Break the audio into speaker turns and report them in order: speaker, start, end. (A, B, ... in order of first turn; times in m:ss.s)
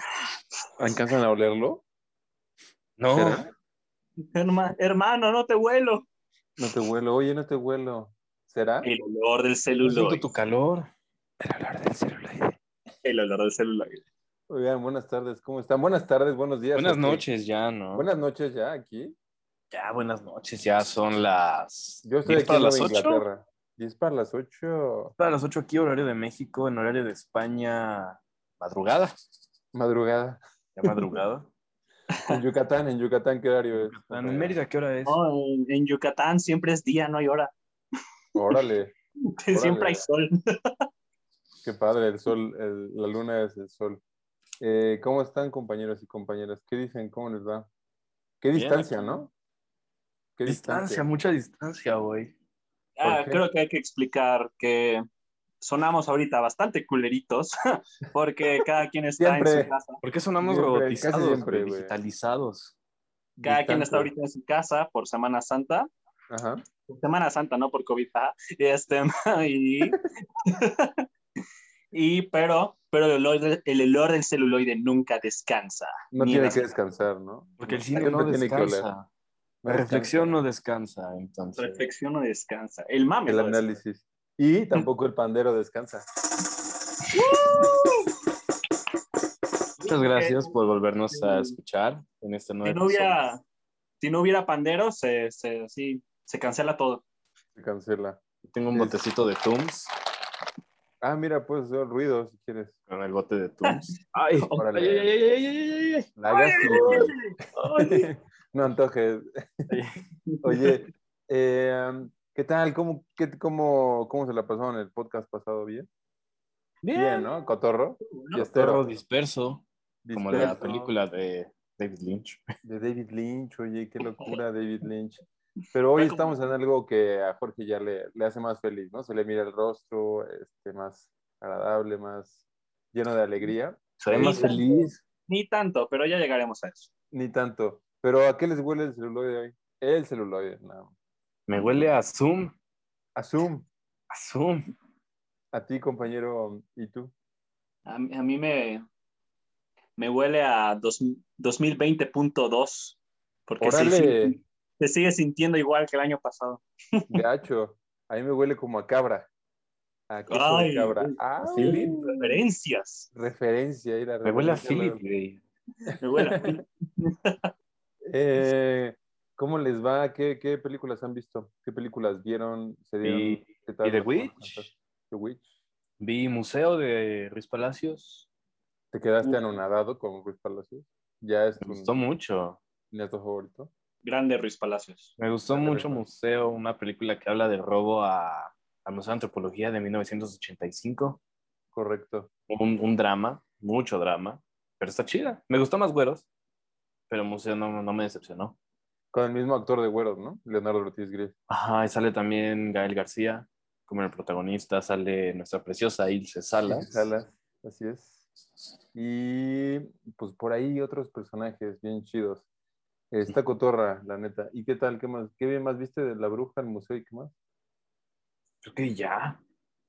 0:00.8-0:01.8 A
0:03.0-0:03.4 B
0:03.1-0:03.5 A
0:04.3-0:06.0 C
0:06.6-0:08.9 A
0:08.8-0:10.2 C
0:09.8-0:10.9 B
0:11.4-0:12.5 B
0:13.0-0:14.0 C
0:14.5-0:17.2 A
0:16.7-0:18.1 B
0:17.9-0:19.1 A
0:19.7-0:23.2 B
0:22.0-0:25.1 A
0:25.2-0:29.1 B
0:29.7-0:30.4 A
0:30.8-0:31.5 B
0:32.3-0:34.6 A
0:33.8-0:35.2 B
0:35.0-0:37.5 C
0:38.3-0:38.9 A
0:39.4-0:40.3 C
0:39.5-0:40.1 A
0:41.6-0:44.0 A
0:44.6-0:47.7 A
0:48.4-0:49.3 A
0:48.5-0:49.1 B
0:50.4-0:51.1 A
0:50.4-0:52.3 B
0:53.0-0:55.0 C
0:53.0-0:53.4 A
0:55.6-1:00.0 C
0:59.2-0:59.7 A
1:00.0-1:02.7 B
1:00.4-1:01.9 A
1:03.4-1:04.1 A
1:03.4-1:05.9 C
1:06.3-1:06.6 A
1:06.9-1:10.9 C
1:11.9-1:16.7 C
1:16.1-1:18.9 A
1:17.6-1:19.1 B
1:19.6-1:20.3 A
1:19.6-1:21.8 B
1:21.6-1:23.8 C
1:23.2-1:26.0 A
1:27.1-1:28.0 C
1:29.8-1:30.5 C
1:29.8-1:33.3 B
1:31.1-1:31.5 C
1:32.6-1:33.4 C
1:34.0-1:37.0 C
1:37.5-1:38.2 A
1:38.4-1:39.9 B
1:41.0-1:42.7 A
1:42.9-1:46.1 B
1:44.5-1:45.1 A
1:46.2-1:47.1 A
1:46.3-1:48.0 C
1:46.6-1:47.1 B
1:47.8-1:49.8 A
1:49.7-1:49.9 B
1:50.3-1:50.6 C
1:50.4-1:55.9 A
1:56.8-1:57.3 B
1:56.9-1:58.8 A
1:58.0-1:58.4 C
1:58.5-2:02.4 B
2:00.0-2:00.7 A
2:00.3-2:00.9 C
2:02.6-2:05.2 A
2:05.7-2:12.4 A
2:06.0-2:06.3 C
2:12.9-2:14.9 A
2:14.0-2:15.0 B
2:14.2-2:14.7 C
2:15.3-2:16.9 C
2:17.1-2:20.9 A
2:21.5-2:22.5 B
2:23.2-2:23.7 A
2:24.1-2:24.6 B
2:25.5-2:27.1 A
2:27.8-2:28.8 C
2:30.0-2:37.1 C
2:33.6-2:34.4 A
2:37.1-2:39.3 A
2:40.1-2:42.1 A
2:40.3-2:43.1 C
2:41.4-2:42.0 B
2:43.1-2:45.0 A
2:44.2-2:45.4 B
2:46.0-2:47.3 C
2:46.2-2:46.6 A
2:48.0-2:55.5 A
2:53.0-2:54.6 B
2:56.0-2:58.3 B
2:58.9-3:01.9 A
3:01.6-3:02.6 B
3:02.9-3:03.7 A
3:04.0-3:05.1 C
3:05.2-3:11.2 B
3:05.5-3:06.0 A
3:11.7-3:12.3 A
3:12.5-3:16.3 B
3:17.1-3:18.6 B
3:19.1-3:21.3 A
3:21.5-3:27.0 B
3:26.6-3:28.2 A
3:28.9-3:32.4 A
3:33.1-3:37.3 A
3:38.6-3:39.4 B